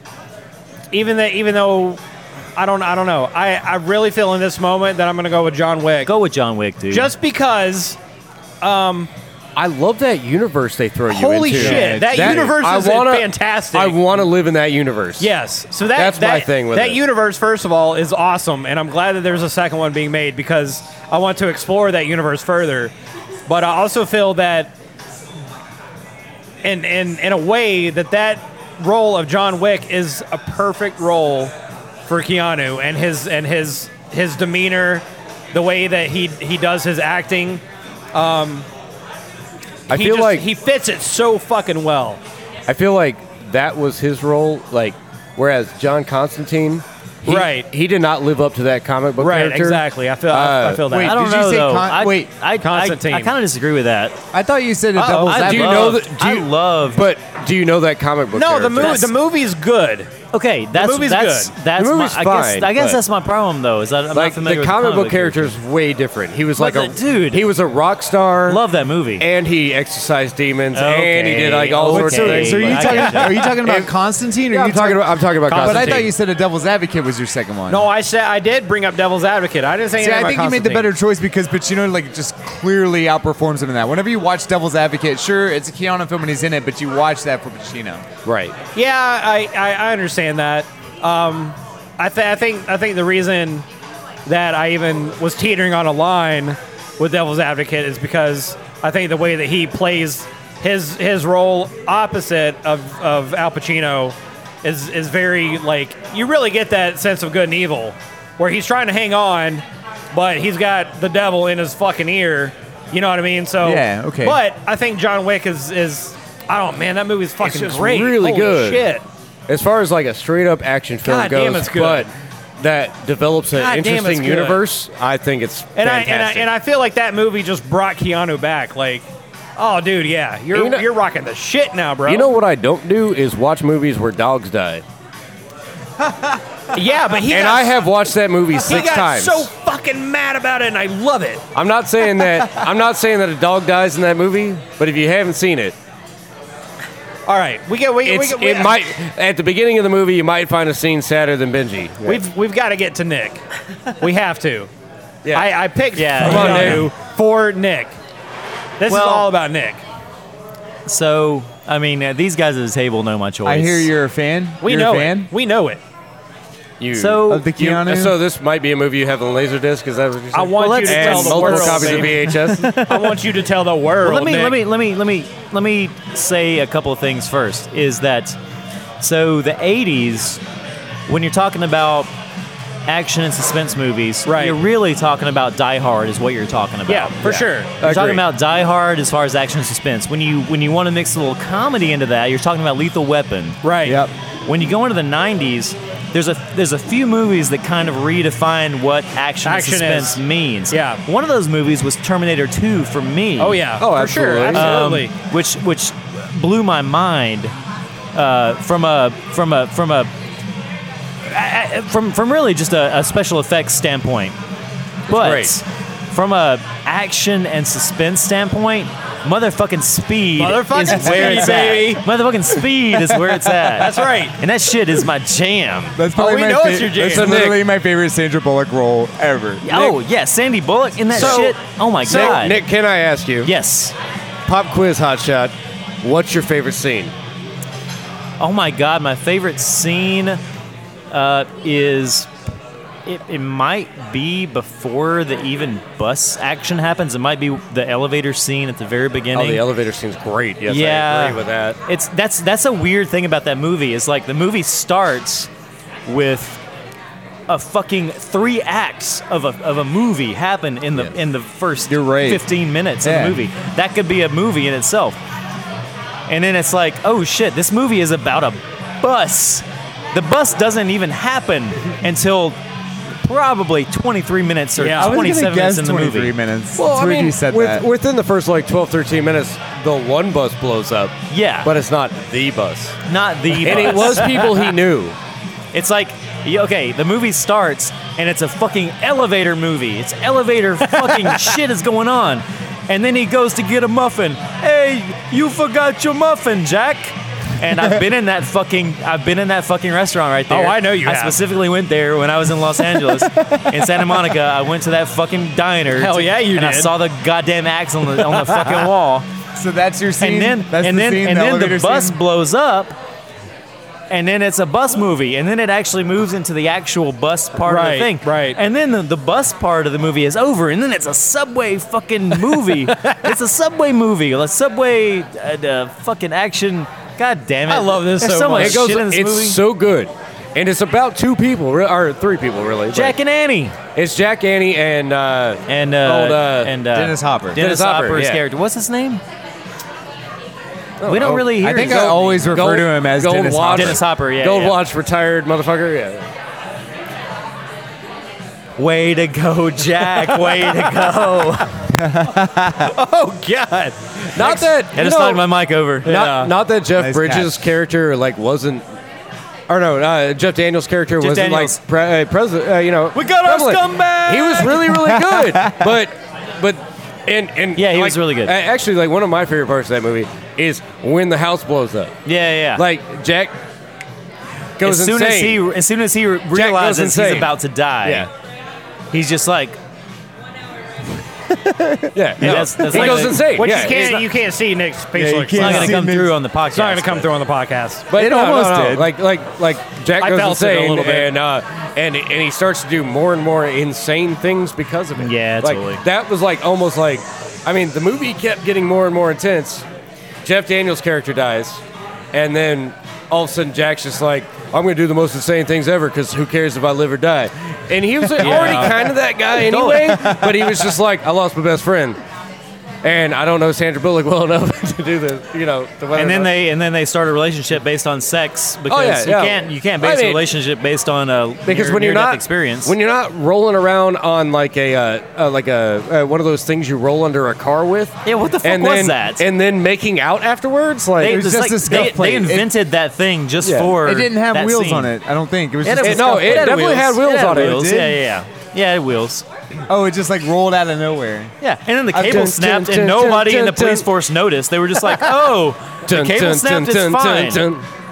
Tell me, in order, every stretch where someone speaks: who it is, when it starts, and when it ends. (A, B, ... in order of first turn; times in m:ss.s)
0:00.9-0:02.0 A
0:02.6-0:06.1 A
0:06.0-0:07.1 B
0:06.9-0:08.0 A
0:08.6-0:09.1 A
0:09.6-0:15.3 C
0:11.1-0:14.0 A
0:11.5-0:12.6 D
0:15.2-0:22.9 A
0:15.9-0:17.0 C
0:23.5-0:24.7 A
0:26.6-0:31.5 A
0:32.1-0:37.6 A
0:38.1-0:38.7 A
0:39.9-0:40.5 C
0:39.9-0:42.2 A
0:42.7-0:50.8 C
0:47.2-0:47.7 A
0:49.2-0:51.2 A
0:50.8-0:52.3 D
0:51.0-0:54.2 B
0:52.6-0:53.3 A
0:54.3-0:56.0 D
0:55.0-0:55.5 A
0:55.2-0:57.0 B
0:55.4-0:59.1 C
0:58.3-1:00.1 A
0:58.8-0:59.0 B
1:00.3-1:05.6 B
1:00.7-1:01.6 A
1:01.8-1:03.0 C
1:04.1-1:08.6 C
1:06.6-1:07.5 B
1:08.5-1:09.3 B
1:09.2-1:13.9 C
1:10.7-1:13.4 B
1:11.9-1:17.9 D
1:12.9-1:13.6 A
1:14.5-1:16.1 C
1:15.5-1:16.1 A
1:17.7-1:20.9 A
1:20.0-1:28.0 D
1:28.2-1:28.6 C
1:28.8-1:33.6 A
1:34.3-1:59.0 A
1:53.6-1:54.4 D
1:57.4-1:58.9 C
1:59.5-2:06.5 C
2:01.0-2:02.1 A
2:03.5-2:04.6 A
2:05.8-2:09.0 A
2:09.6-2:12.3 A
2:10.5-2:10.9 C
2:12.1-2:14.8 C
2:16.7-2:17.8 A
2:17.3-2:19.5 C
2:18.6-2:21.4 A
2:21.5-2:25.8 C
2:27.3-2:28.8 A
2:28.0-2:32.2 C
2:32.0-2:33.4 A
2:34.0-2:34.7 A
2:35.2-2:35.5 C
2:35.3-2:38.0 A
2:36.0-2:36.9 B
2:36.2-2:36.9 C
2:38.8-2:39.8 A
2:38.9-2:39.3 B
2:40.9-2:43.9 B
2:43.4-2:45.3 D
2:44.6-2:45.8 A
2:46.8-2:52.8 C
2:46.9-2:47.5 B
2:47.3-2:48.2 D
2:50.3-2:54.6 A
2:50.6-2:53.1 B
2:51.0-2:52.0 D
2:54.0-2:58.4 B
2:59.0-3:00.4 B
3:01.1-3:02.1 B
3:02.9-3:07.2 B
3:04.3-3:04.6 A
3:06.9-3:07.7 A
3:07.2-3:08.2 C
3:07.8-3:13.6 B
3:13.6-3:14.0 A
3:13.8-3:14.1 D
3:14.5-3:23.7 B
3:19.4-3:21.0 A
3:23.4-3:25.1 A
3:23.8-3:24.9 C
3:24.5-3:27.5 B
3:28.1-3:30.1 B
3:31.3-3:34.4 B
3:35.1-3:46.0 B
3:35.1-3:35.6 C
3:40.4-3:42.0 A
3:41.0-3:41.7 D
3:43.8-3:44.4 A
3:46.0-3:49.7 D
3:46.2-3:47.4 A
3:47.0-3:47.6 C
3:49.6-3:52.6 B
3:51.1-3:52.4 A
3:51.1-3:51.5 C
3:52.0-3:53.5 C
3:53.4-3:54.0 B
3:54.5-3:57.1 C
3:58.4-4:00.4 B
4:01.1-4:02.3 B
4:03.1-4:09.6 B
4:09.3-4:11.8 C
4:10.7-4:15.5 B
4:16.1-4:16.6 B
4:17.5-4:25.2 B
4:21.9-4:22.5 D
4:23.0-4:23.4 D
4:26.3-4:32.6 B
4:33.2-4:36.3 B
4:34.8-4:35.2 A
4:35.0-4:37.9 D
4:36.8-4:43.0 C
4:41.3-4:41.7 B
4:43.1-4:44.5 B
4:43.5-4:45.2 C
4:45.7-5:09.3 B
4:50.8-4:51.6 A
5:00.5-5:01.4 A
5:03.2-5:03.8 D
5:06.0-5:06.9 A
5:09.6-5:12.2 D
5:10.2-5:13.0 B
5:14.1-5:29.6 B
5:17.7-5:18.6 A
5:22.8-5:23.3 A
5:27.7-5:29.0 A
5:28.6-5:33.2 C
5:32.9-5:33.8 B
5:34.0-5:36.8 C
5:35.7-5:39.2 B
5:36.9-5:37.6 D
5:37.6-5:38.4 C
5:41.0-5:46.3 C
5:41.0-5:42.2 B
5:41.6-5:44.0 D
5:43.7-5:44.8 B
5:48.8-5:51.7 B
5:50.2-5:50.6 A
5:51.9-5:52.9 D
5:52.9-5:54.7 A
5:54.4-5:55.5 C
5:54.9-5:56.2 B
5:56.0-5:56.5 A
5:56.0-5:58.8 C
5:57.0-5:57.6 D
5:59.7-6:12.2 C
6:01.2-6:01.8 B
6:03.1-6:05.0 B
6:05.0-6:05.9 D
6:07.8-6:08.6 B
6:12.3-6:12.8 B
6:12.8-6:13.6 C
6:14.8-6:15.6 C
6:14.8-6:18.3 B
6:16.5-6:18.3 C
6:19.1-6:19.8 B
6:21.5-6:23.2 D
6:22.1-6:24.1 C
6:22.4-6:24.2 B
6:22.9-6:26.0 A
6:25.2-6:26.3 D
6:25.6-6:27.3 B
6:26.7-6:28.1 A
6:28.1-6:39.8 C
6:28.1-6:29.1 D
6:30.2-6:31.3 A
6:35.2-6:36.0 B
6:40.4-6:41.8 C
6:42.3-6:52.2 C
6:48.4-6:49.0 A
6:48.4-6:48.9 B
6:49.7-6:50.3 B
6:50.3-6:50.9 D
6:53.0-6:56.5 C
6:56.2-7:03.0 B
6:58.9-7:00.4 C
7:01.7-7:11.4 C
7:08.2-7:09.4 B
7:11.2-7:15.1 B
7:11.2-7:12.7 D
7:13.6-7:14.0 C
7:14.0-7:18.2 D
7:15.8-7:19.4 B
7:16.0-7:18.1 C
7:19.9-7:21.5 D
7:21.6-7:27.7 B
7:22.1-7:24.1 C
7:22.2-7:22.4 D
7:26.0-7:27.9 C